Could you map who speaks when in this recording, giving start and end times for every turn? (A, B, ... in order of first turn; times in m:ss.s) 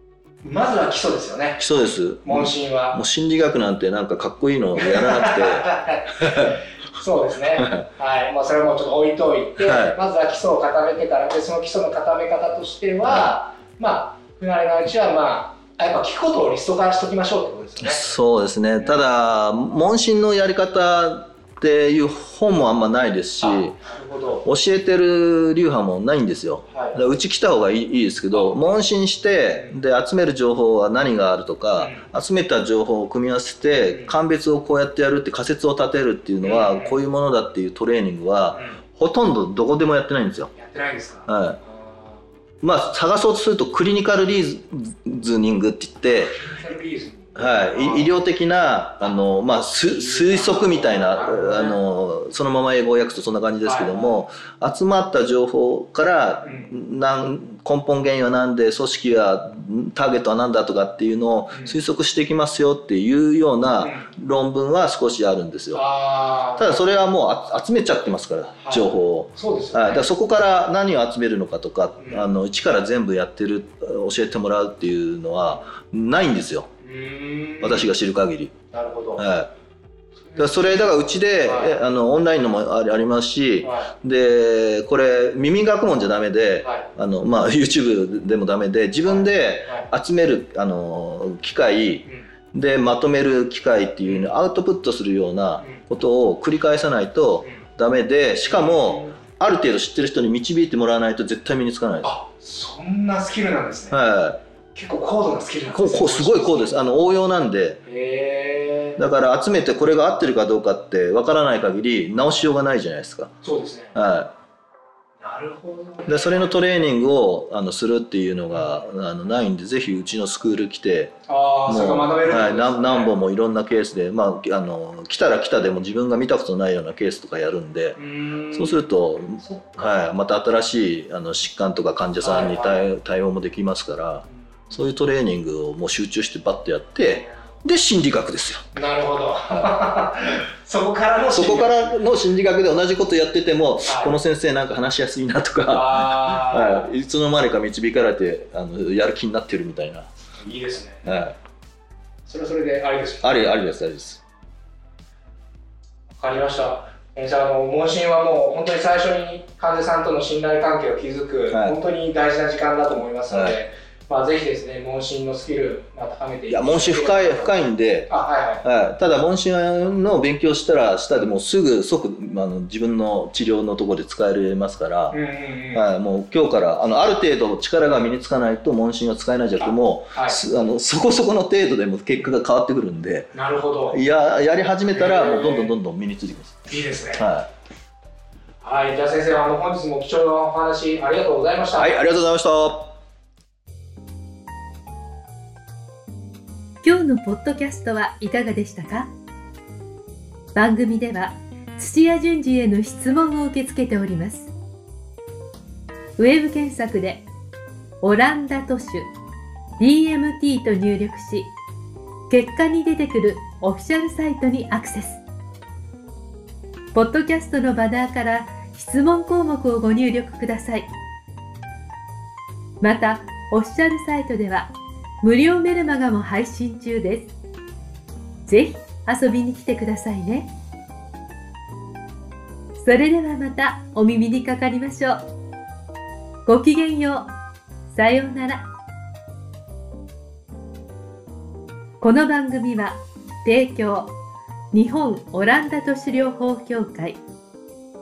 0:00.4-0:01.6 A
0:01.6-0:05.7 B
0:02.2-0:03.0 A
0:04.8-0:18.0 A
0:06.2-0:06.6 B
0:07.6-0:07.8 B
0:09.6-0:10.0 B
0:13.0-0:13.4 B
0:17.8-0:23.8 B
0:23.4-0:24.4 A
0:24.4-0:40.5 B
0:26.7-0:27.0 A
0:28.3-0:28.8 A
0:31.8-0:32.0 A
0:33.9-0:34.2 A
0:36.4-0:37.0 A
0:38.5-0:38.8 A
0:40.6-0:42.2 A
0:41.3-0:41.6 B
0:42.6-0:46.4 B
0:46.1-0:48.1 A
0:47.4-1:05.8 B
0:49.0-0:51.8 A
0:53.6-0:54.2 A
0:56.4-0:56.7 A
1:03.8-1:04.1 A
1:05.7-1:06.8 A
1:06.6-1:16.7 B
1:08.6-1:10.1 A
1:12.0-1:12.3 A
1:16.8-1:17.9 A
1:17.6-1:18.5 B
1:18.7-1:19.2 A
1:19.2-1:19.5 B
1:20.3-1:21.8 A
1:20.4-1:42.1 B
1:23.6-1:23.9 A
1:26.6-1:26.9 A
1:29.0-1:29.9 A
1:34.0-1:34.4 A
1:38.4-1:39.2 A
1:42.0-1:44.0 A
1:43.9-1:44.4 B
1:44.7-1:46.8 A
1:45.7-1:47.8 B
1:47.8-1:49.0 A
1:49.0-1:53.3 B
1:53.4-1:53.9 A
1:53.9-1:54.3 B
1:55.2-1:56.5 A
1:56.1-2:01.2 B
1:58.5-1:58.8 A
2:01.3-2:03.1 A
2:01.7-2:08.0 B
2:08.0-2:08.9 A
2:08.5-2:18.7 B
2:12.2-2:12.9 A
2:18.7-2:22.0 A
2:21.3-2:30.1 B
2:23.8-2:24.2 A
2:25.7-2:26.9 A
2:30.4-2:31.0 A
2:31.0-2:31.3 B
2:32.2-2:33.4 A
2:33.2-2:34.2 B
2:36.2-2:48.6 A
2:41.5-2:41.8 B
2:43.3-2:43.6 B
2:46.5-2:48.1 B
2:48.6-2:55.2 B
2:55.1-2:55.9 A
2:55.7-3:03.3 B
2:59.6-3:00.4 A
3:03.3-3:04.0 A
3:03.9-3:06.6 B
3:04.9-3:05.7 A
3:06.7-3:07.2 A
3:07.2-3:07.5 B
3:08.6-3:11.9 A
3:11.8-3:12.9 B
3:16.8-3:19.1 C
3:20.5-3:24.5 C
3:26.2-3:27.2 C
3:28.0-3:29.1 C
3:29.8-3:31.5 C
3:32.3-3:35.2 C
3:36.9-3:40.9 C
3:42.8-3:44.7 C
3:45.2-3:47.3 C
3:48.4-3:50.5 C
3:52.8-3:55.2 C
3:56.4-3:57.3 C
3:57.9-3:58.6 C
4:02.0-4:04.1 C
4:04.7-4:07.2 C